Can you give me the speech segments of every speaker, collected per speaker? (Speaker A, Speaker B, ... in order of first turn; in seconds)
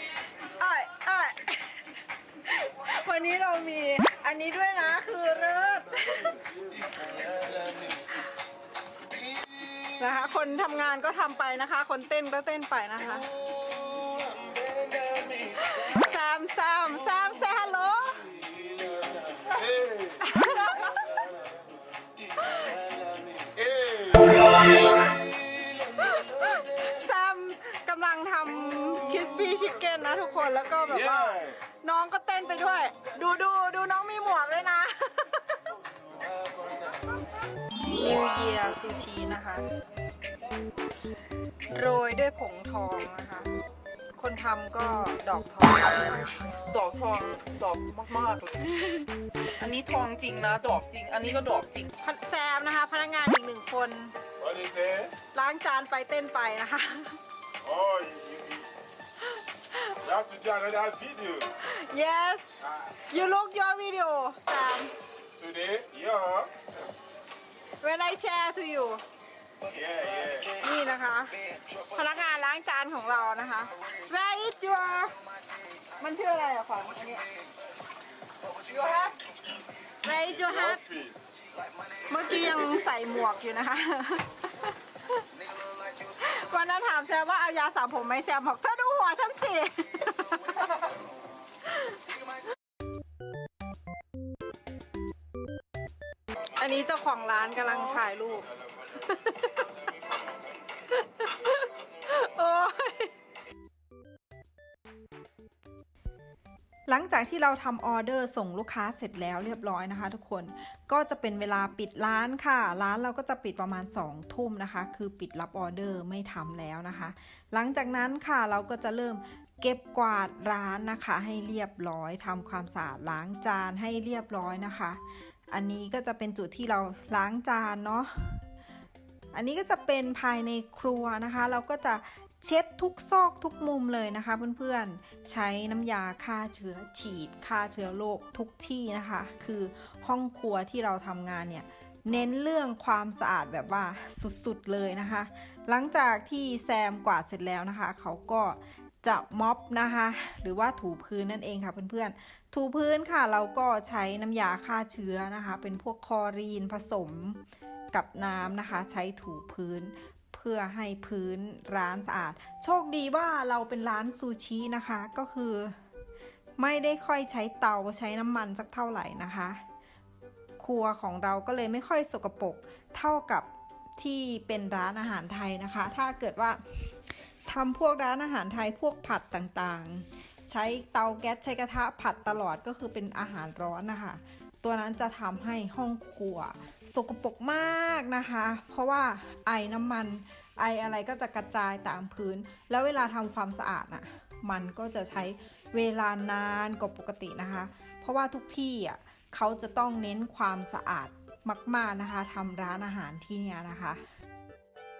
Speaker A: 0.5-6.4, 10.0-13.3, 15.4-18.3, 20.2-21.3, 24.2-24.7, 26.0-35.5, 37.8-39.7, 41.7-43.5, 44.1-46.6, 48.6-49.0, 52.0-54.1, 55.3-57.2, 61.5-64.9, 67.8-69.0, 70.5-75.2, 76.0-77.3, 78.6-79.2, 80.0-80.9, 81.9-84.7, 85.9-90.9, 91.7-92.0, 96.4-99.7, 100.9-103.1, 106.9-128.4, 129.3-157.4, 157.9-165.8, 166.6-169.6, 170.6-176.6, 177.4-204.0
Speaker B: 19.6-19.9, 23.6-24.2, 54.4-55.1, 57.6-58.7, 60.0-61.5, 65.4-66.5, 69.7-70.5, 80.9-81.2
Speaker C: 46.7-48.6, 49.5-51.9